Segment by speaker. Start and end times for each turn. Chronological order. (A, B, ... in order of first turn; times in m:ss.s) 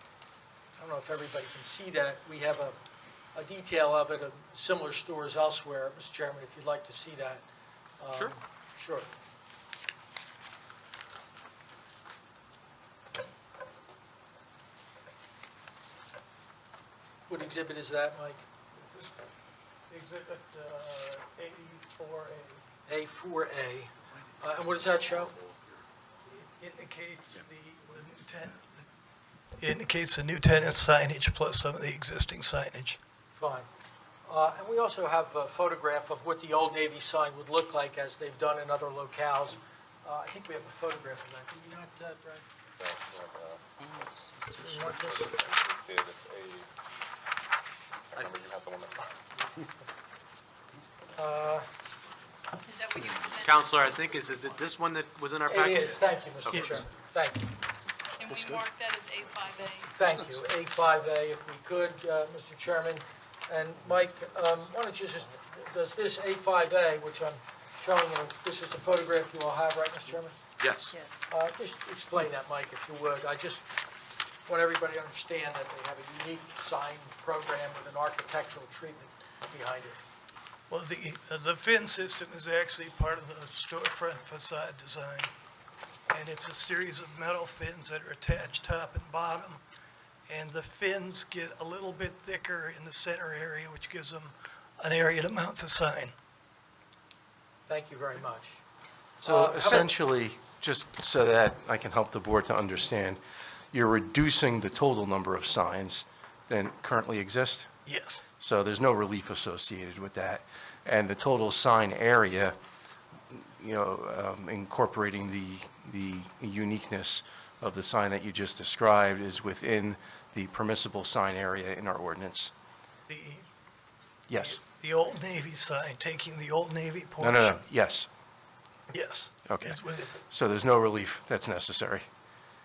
0:00.8-0:02.8 A
0:03.3-0:07.4 A
0:08.0-0:09.1 A
0:17.3-0:18.4 A
0:18.8-0:19.2 B
0:19.9-0:22.6 B
0:22.9-0:25.3 A
0:26.3-0:28.9 B
0:29.6-0:33.0 B
0:33.3-0:33.7 A
0:34.3-0:42.4 A
0:42.8-0:43.6 C
0:43.9-0:44.9 D
0:44.5-0:45.4 A
0:44.8-0:46.7 C
0:48.1-0:49.2 C
0:51.2-0:51.7 A
0:52.6-0:54.2 E
0:53.1-0:56.0 D
0:55.5-0:57.5 A
0:56.0-0:56.5 E
0:56.4-0:56.7 F
0:58.2-1:00.1 E
0:58.3-0:58.6 D
0:59.9-1:10.4 A
1:10.9-1:11.2 E
1:11.3-1:13.7 A
1:14.5-1:20.0 A
1:20.7-1:25.3 B
1:26.1-1:29.6 B
1:30.3-1:36.1 B
1:37.7-1:38.6 A
1:39.2-1:43.2 F
1:39.2-1:39.9 A
1:43.7-1:47.7 F
1:47.9-1:48.2 B
1:48.4-1:52.6 F
1:53.3-2:02.5 F
2:03.1-2:03.5 B
2:04.3-2:04.6 F
2:04.4-2:07.6 B
2:07.2-2:08.1 F
2:08.9-2:10.2 B
2:09.5-2:12.1 F